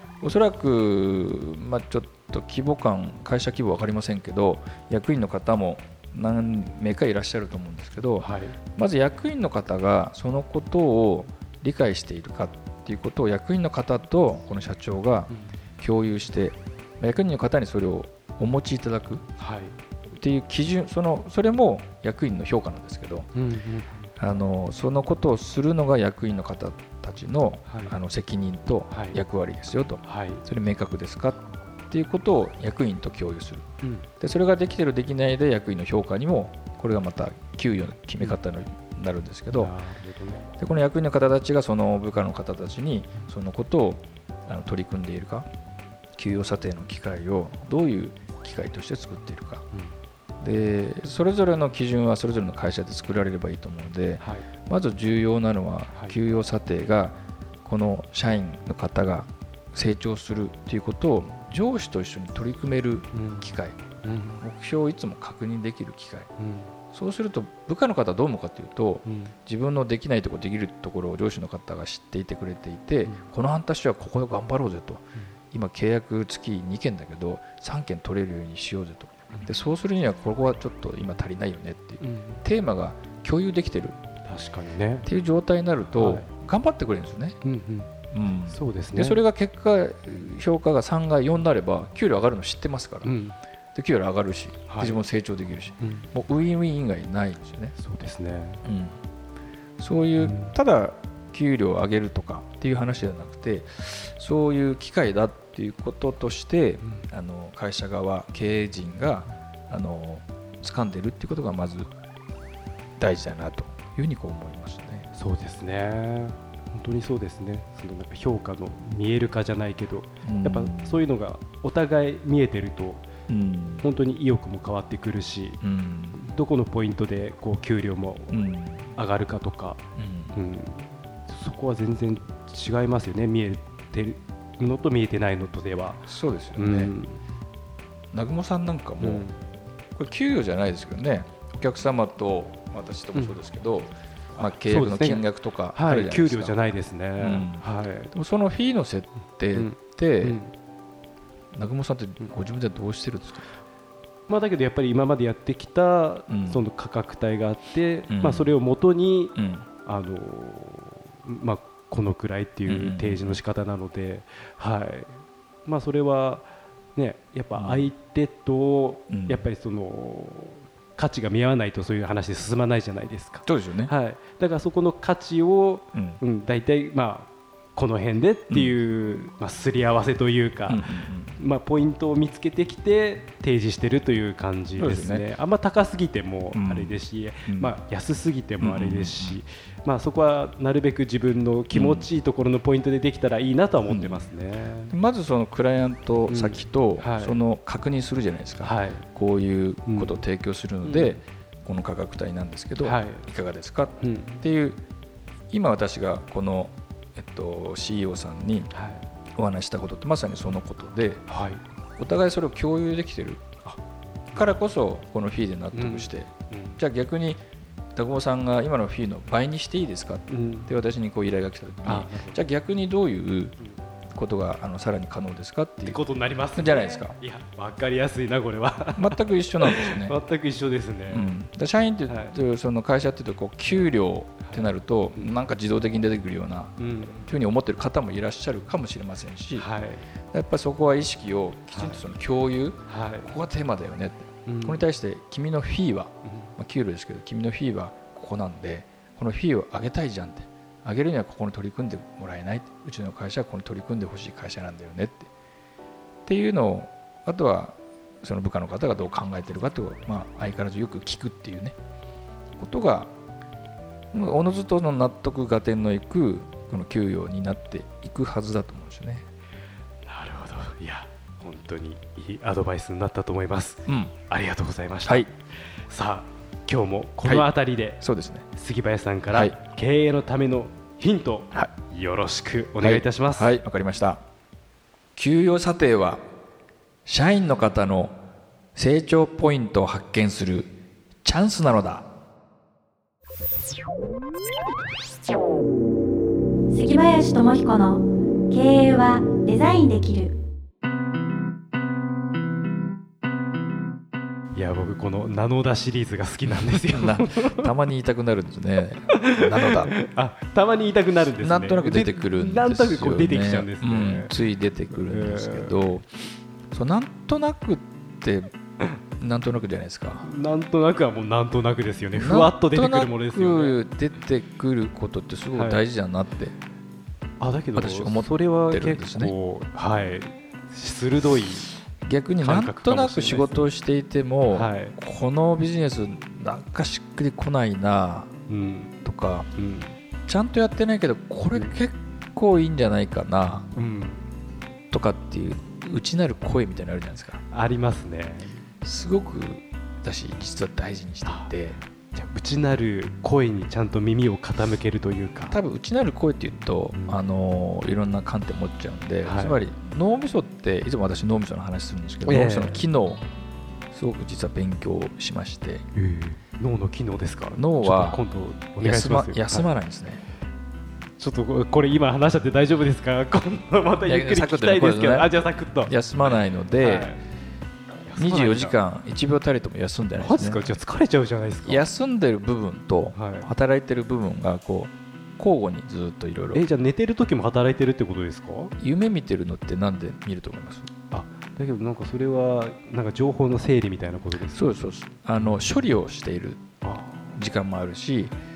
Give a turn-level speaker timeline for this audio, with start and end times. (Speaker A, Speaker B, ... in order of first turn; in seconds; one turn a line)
Speaker A: 0.2-19.3
Speaker B: 8.2-8.6
Speaker B: 19.4-19.8
Speaker A: 20.1-23.3
Speaker B: 23.4-24.0
Speaker A: 24.2-33.7
Speaker B: 27.7-28.0
Speaker B: 28.9-29.2
Speaker B: 30.0-30.4
Speaker B: 33.8-34.1
Speaker A: 34.2-39.7
Speaker B: 39.5-40.5
Speaker A: 40.6-45.5
Speaker A: 46.2-49.6
Speaker A: 50.4-63.8
Speaker B: 54.2-54.5
Speaker B: 63.1-63.5
Speaker B: 64.0-64.4
Speaker A: 64.4-66.3
Speaker B: 66.4-66.7
Speaker A: 66.9-84.0
Speaker B: 69.0-69.3
Speaker B: 82.0-82.4
Speaker B: 84.3-85.1
Speaker A: 85.0-87.4
Speaker B: 86.0-86.3
Speaker B: 87.4-87.9
Speaker A: 88.1-93.1
Speaker B: 88.5-89.2
Speaker B: 93.0-93.4
Speaker A: 93.7-97.7
Speaker B: 94.7-95.0
Speaker B: 95.8-96.1
Speaker B: 97.8-98.6
Speaker A: 98.7-99.0
Speaker A: 99.8-111.9
Speaker B: 100.2-100.5
Speaker B: 106.8-107.1
Speaker A: 113.0-115.1
Speaker B: 115.1-123.0
Speaker A: 120.2-121.0
Speaker A: 123.3-123.9
Speaker B: 123.8-125.6
Speaker A: 125.6-126.2
Speaker B: 126.1-128.4
Speaker A: 128.3-128.9
Speaker B: 128.9-129.8
Speaker A: 130.0-130.4
Speaker B: 130.3-136.1
Speaker A: 136.1-136.9
Speaker B: 136.6-137.3
Speaker A: 138.1-139.3
Speaker B: 139.0-139.4
Speaker A: 139.9-146.6
Speaker B: 144.4-148.1
Speaker A: 147.2-150.4
Speaker B: 149.5-150.5
Speaker A: 151.5-153.5
Speaker B: 154.3-194.9
Speaker A: 156.3-156.6
Speaker A: 158.1-158.5
Speaker A: 159.3-159.7
Speaker A: 162.7-163.4
Speaker A: 167.6-167.9
Speaker A: 169.1-169.5
Speaker A: 173.5-173.9
Speaker A: 175.9-176.2
Speaker A: 178.5-178.8
Speaker A: 180.7-181.4
Speaker A: 184.8-185.3
Speaker A: 186.5-187.7
Speaker A: 188.6-189.4
Speaker A: 191.7-192.1
Speaker A: 193.9-194.3
Speaker A: 194.9-204.8
Speaker B: 196.3-197.4
Speaker B: 198.6-199.1
Speaker B: 199.9-200.2
Speaker B: 200.8-201.2
Speaker B: 202.8-203.3
Speaker B: 204.0-204.4
Speaker A: 205.5-208.7
Speaker B: 208.7-209.1
Speaker A: 209.4-211.2
Speaker B: 211.3-211.6
Speaker A: 212.0-213.8
Speaker B: 214.3-214.6
Speaker A: 214.3-217.4
Speaker B: 215.7-216.8
Speaker A: 217.9-223.6
Speaker B: 220.3-220.7
Speaker B: 221.8-222.4
Speaker A: 224.2-226.0
Speaker B: 225.8-231.3
Speaker A: 226.6-227.2
Speaker A: 228.9-230.2
Speaker A: 231.1-239.7
Speaker B: 232.1-232.4
Speaker B: 234.5-235.4
Speaker B: 236.8-237.3
Speaker B: 239.6-240.1
Speaker A: 240.3-255.3
Speaker B: 241.7-242.0
Speaker B: 242.9-243.3
Speaker B: 244.5-244.8
Speaker A: 256.3-261.8
Speaker A: 262.6-263.1
Speaker A: 264.1-269.3
Speaker B: 270.1-278.0
Speaker A: 273.9-274.1
Speaker A: 277.2-278.5
Speaker B: 278.6-283.6
Speaker A: 282.8-284.2
Speaker A: 285.2-286.2
Speaker A: 287.1-288.2
Speaker A: 288.8-290.7
Speaker A: 291.2-292.1
Speaker C: 296.7-300.3
Speaker B: 304.6-307.7
Speaker A: 306.9-309.9
Speaker B: 309.1-314.3
Speaker A: 311.4-316.1
Speaker B: 314.9-315.8
Speaker A: 316.7-318.5
Speaker A: 319.2-320.3
Speaker B: 320.2-323.8
Speaker A: 322.1-326.5
Speaker B: 325.5-325.8
Speaker B: 327.4-331.7
Speaker A: 327.8-329.3
Speaker A: 332.0-338.3
Speaker B: 332.4-333.7
Speaker B: 334.5-335.0
Speaker B: 338.5-339.0
Speaker A: 339.0-339.5
Speaker B: 339.5-340.0
Speaker A: 340.3-343.7
Speaker B: 343.8-344.2
Speaker A: 344.9-347.4
Speaker B: 347.5-348.6
Speaker A: 348.8-351.8
Speaker B: 351.2-351.6
Speaker B: 352.1-355.6
Speaker A: 355.5-363.2
Speaker B: 356.9-357.2
Speaker B: 359.2-359.6
Speaker B: 362.2-362.9
Speaker A: 363.9-365.9
Speaker B: 365.9-369.7
Speaker A: 367.5-368.2
Speaker A: 368.8-370.2
Speaker B: 371.2-377.2
Speaker A: 374.1-377.2
Speaker B: 378.0-378.8
Speaker A: 378.2-380.7
Speaker B: 380.2-381.9
Speaker A: 381.6-386.6
Speaker B: 383.1-383.5
Speaker B: 386.5-388.7
Speaker A: 388.8-390.9
Speaker B: 391.1-394.9
Speaker A: 394.5-396.6
Speaker B: 396.8-397.4
Speaker A: 397.3-398.4